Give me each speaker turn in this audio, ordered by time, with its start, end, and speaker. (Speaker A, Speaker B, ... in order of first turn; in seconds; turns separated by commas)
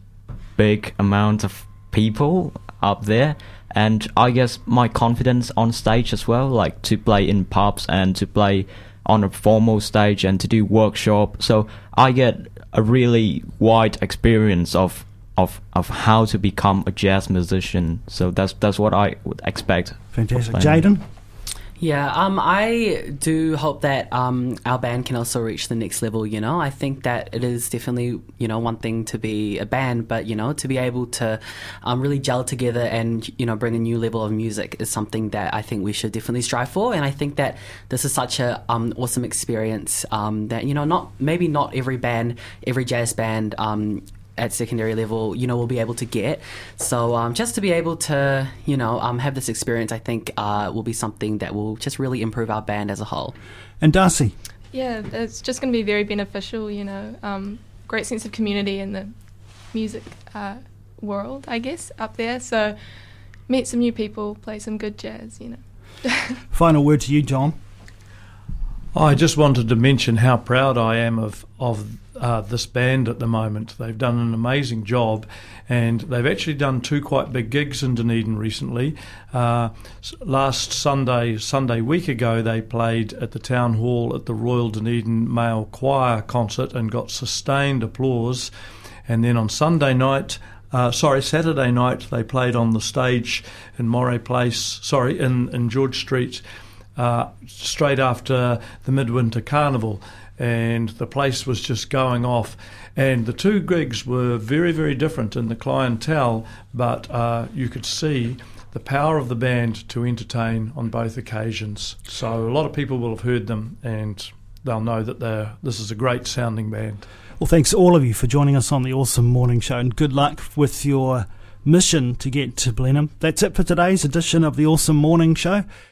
Speaker A: 0.6-20.9, Speaker B: 20.1-21.0, Speaker C: 21.8-53.4, Speaker B: 53.8-54.4, Speaker D: 54.7-59.1, Speaker D: 59.7-62.8, Speaker D: 63.5-66.2, Speaker B: 66.5-67.5, Speaker E: 68.9-88.5, Speaker E: 89.1-96.4, Speaker E: 97.0-117.0, Speaker B: 117.4-125.6